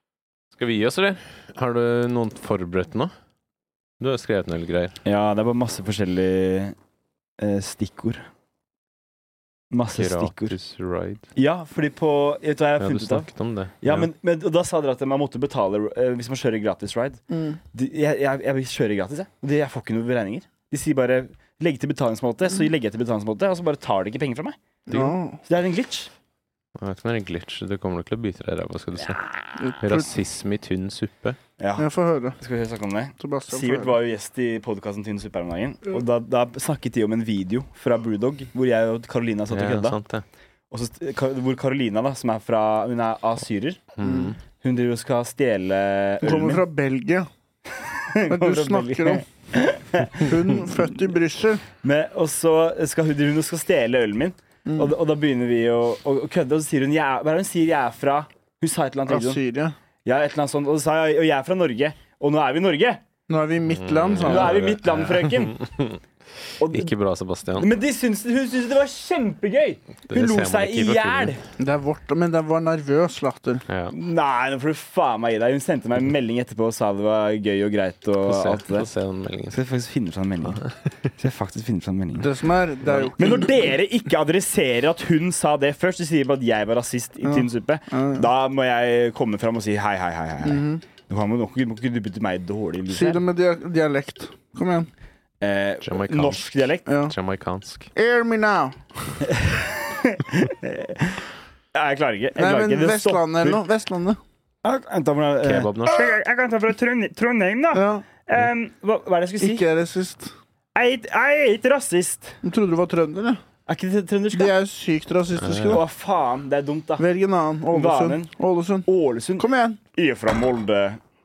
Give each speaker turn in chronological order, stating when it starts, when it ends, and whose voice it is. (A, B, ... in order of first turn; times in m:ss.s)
0:00.5-0:03.1 A
0:04.0-0:05.0 A
0:05.0-0:06.7 B
0:07.4-0:08.2 B
0:09.7-0:10.6 B
0:10.0-0:11.3 A
0:11.3-0:13.3 B
0:12.8-0:14.1 A
0:13.8-0:24.6 B
0:17.3-0:17.6 C
0:24.9-0:25.4 C
0:25.4-0:26.1 B
0:26.8-0:29.3 A
0:29.6-0:30.0 C
0:29.8-0:31.4 A
0:31.6-0:40.0 B
0:31.8-0:32.4 C
0:33.2-0:34.0 C
0:39.5-0:40.2 A
0:40.7-0:43.9 B
0:44.0-0:44.4 A
0:44.0-0:44.3 C
0:44.6-0:46.6 B
0:46.2-0:47.3 C
0:47.8-0:50.5 B
0:48.3-0:49.2 C
0:50.2-0:51.6 C
0:51.8-0:59.4 B
0:54.6-0:54.9 C
0:59.1-0:59.8 C
1:00.0-1:03.0 B
1:03.3-1:04.7 C
1:03.7-1:06.0 A
1:04.2-1:05.6 B
1:06.6-1:06.9 B
1:06.7-1:07.7 A
1:07.5-1:11.4 B
1:10.1-1:11.3 A
1:11.6-1:13.6 C
1:13.7-1:13.9 A
1:13.9-1:18.9 B
1:18.2-1:19.6 A
1:19.5-1:20.6 B
1:21.2-1:22.3 B
1:22.2-1:23.5 C
1:22.8-1:33.2 B
1:27.2-1:28.3 C
1:30.4-1:30.8 C
1:32.9-1:34.9 C
1:35.4-1:36.9 B
1:35.8-1:36.5 A
1:36.8-1:37.1 C
1:37.0-1:37.9 A
1:37.9-1:38.8 C
1:39.3-1:43.6 B
1:42.4-1:44.2 C
1:44.6-1:49.7 B
1:45.4-1:46.1 A
1:47.7-1:48.1 C
1:49.4-1:50.3 C
1:50.7-1:52.4 B
1:52.4-1:53.4 C
1:53.7-1:54.5 B
1:54.3-1:55.8 C
1:55.4-1:55.8 A
1:55.7-1:57.0 B
1:57.0-1:58.9 C
1:57.7-1:58.3 B
1:58.8-2:01.0 B
1:59.4-1:59.8 C